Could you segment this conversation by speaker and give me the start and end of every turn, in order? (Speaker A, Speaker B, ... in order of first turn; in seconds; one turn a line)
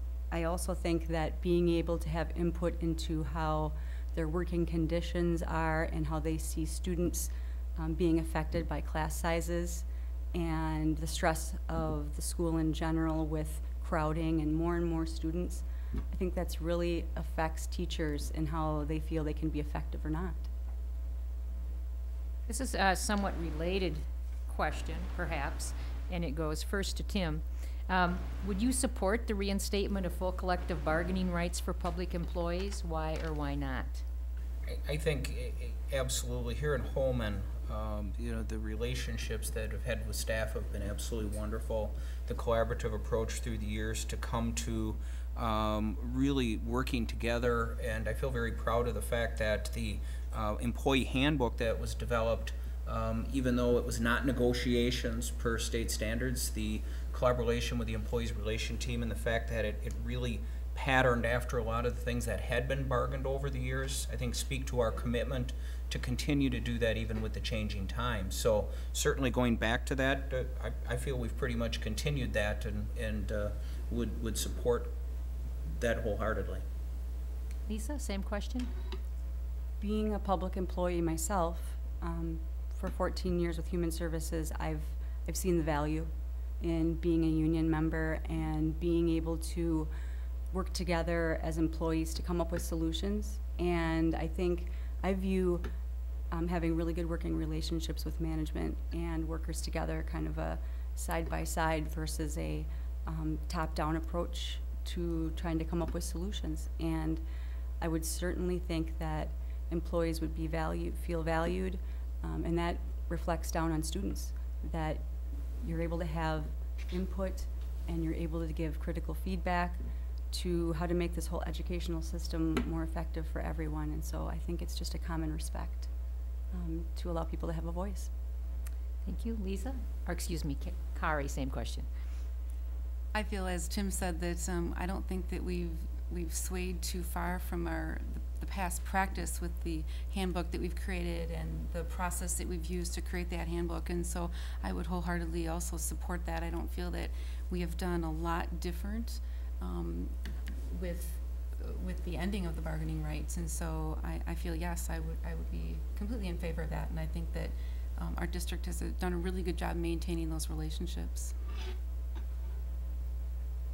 Speaker A: 0.3-20.5
Speaker B: 22.5-34.0
Speaker C: 34.7-74.9
Speaker C: 75.8-76.6
Speaker B: 77.7-78.7
Speaker A: 79.8-89.9
Speaker A: 90.5-95.7
Speaker A: 96.3-107.2
Speaker A: 107.8-115.0
Speaker A: 115.6-125.9
Speaker A: 126.5-128.1
Speaker B: 129.1-131.9
Speaker D: 133.1-150.2
Speaker D: 150.7-161.3